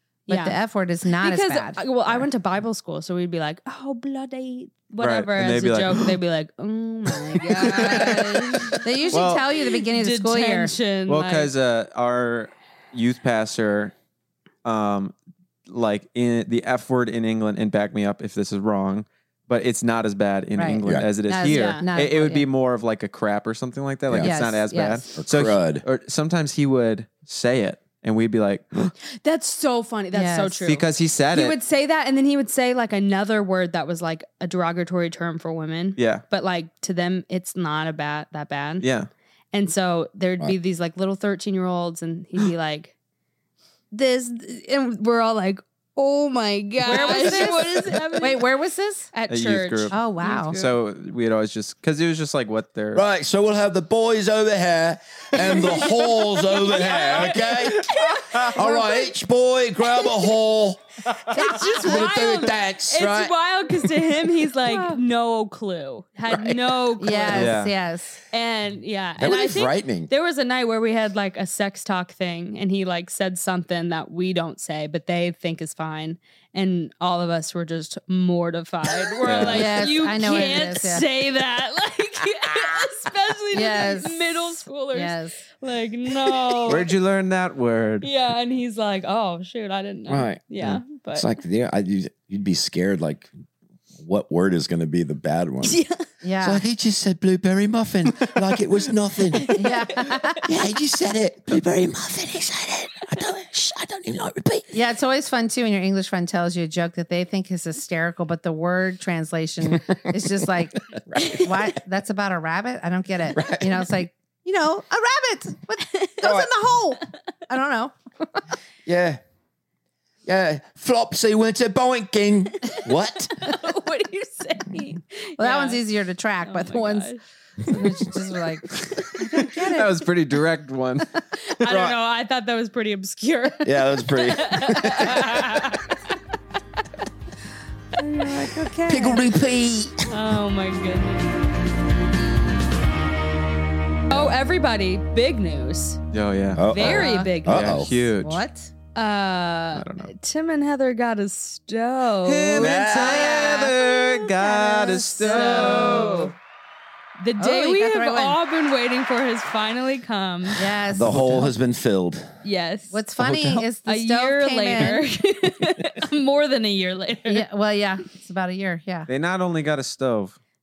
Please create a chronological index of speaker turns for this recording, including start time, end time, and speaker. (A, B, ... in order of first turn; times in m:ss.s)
0:00.3-0:01.8 A
0:00.3-0:00.6 B
0:01.2-0:09.2 B
0:05.0-0:06.1 C
0:07.4-0:09.5 C
0:07.5-0:08.2 A
0:08.8-0:10.7 A
0:09.9-0:11.5 B
0:11.1-0:13.9 C
0:14.6-0:15.2 C
0:15.7-0:28.9 C
0:20.6-0:22.5 A
0:21.5-0:21.9 B
0:24.1-0:24.3 D
0:24.2-0:25.0 A
0:25.2-0:25.8 D
0:29.1-0:38.9 B
0:30.1-0:30.6 A
0:30.7-0:31.6 C
0:36.0-0:36.2 C
0:38.8-0:39.1 C
0:39.5-0:42.9 B
0:43.9-0:48.5 B
0:46.8-0:49.1 A
0:47.0-0:47.5 C
0:49.1-0:50.8 B
0:49.3-0:50.0 C
0:49.9-0:50.6 A
0:50.5-0:53.0 C
0:52.9-1:00.8 D
0:55.4-0:59.0 B
1:01.3-1:07.6 B
1:01.3-1:02.1 A
1:01.4-1:03.3 D
1:04.6-1:05.0 A
1:06.3-1:06.7 D
1:07.0-1:08.2 A
1:07.3-1:07.7 C
1:08.3-1:26.8 B
1:09.2-1:10.1 D
1:19.2-1:19.7 C
1:19.4-1:21.1 A
1:23.5-1:25.4 A
1:26.7-1:28.1 C
1:28.0-1:31.4 B
1:30.1-1:33.3 D
1:34.0-1:35.8 D
1:35.6-1:36.0 B
1:36.2-1:36.6 A
1:36.4-1:39.6 D
1:39.3-1:39.8 B
1:39.6-1:40.5 A
1:40.4-1:44.7 D
1:44.7-1:58.4 A
1:51.0-1:51.5 D
1:53.3-1:53.9 D
1:56.2-1:56.5 D
1:58.8-1:59.2 D
2:00.3-2:03.4 D
2:03.4-2:05.8 B
2:05.4-2:10.0 A
2:06.4-2:07.2 B
2:09.4-2:11.1 C
2:11.4-2:16.0 B
2:13.6-2:15.8 D
2:18.0-2:19.2 A
2:18.8-2:20.1 D
2:20.1-2:21.4 B
2:24.1-2:26.0 B
2:26.1-2:26.7 C
2:26.5-2:27.9 D
2:26.7-2:27.7 B
2:26.8-2:27.3 A
2:27.5-2:28.4 C
2:27.9-2:28.7 A
2:29.0-2:32.8 B
2:29.8-2:30.1 C
2:32.2-2:36.3 C
2:32.6-2:33.7 D
2:32.9-2:33.8 A
2:34.4-2:36.3 B
2:34.5-2:36.3 A
2:37.2-2:40.6 B
2:37.4-2:38.4 A
2:40.6-2:41.5 A
2:40.9-2:42.3 D
2:42.4-2:43.0 B
2:42.9-2:45.1 A
2:43.2-2:43.6 D
2:43.8-2:47.5 B
2:47.3-2:49.1 A
2:49.1-2:50.4 C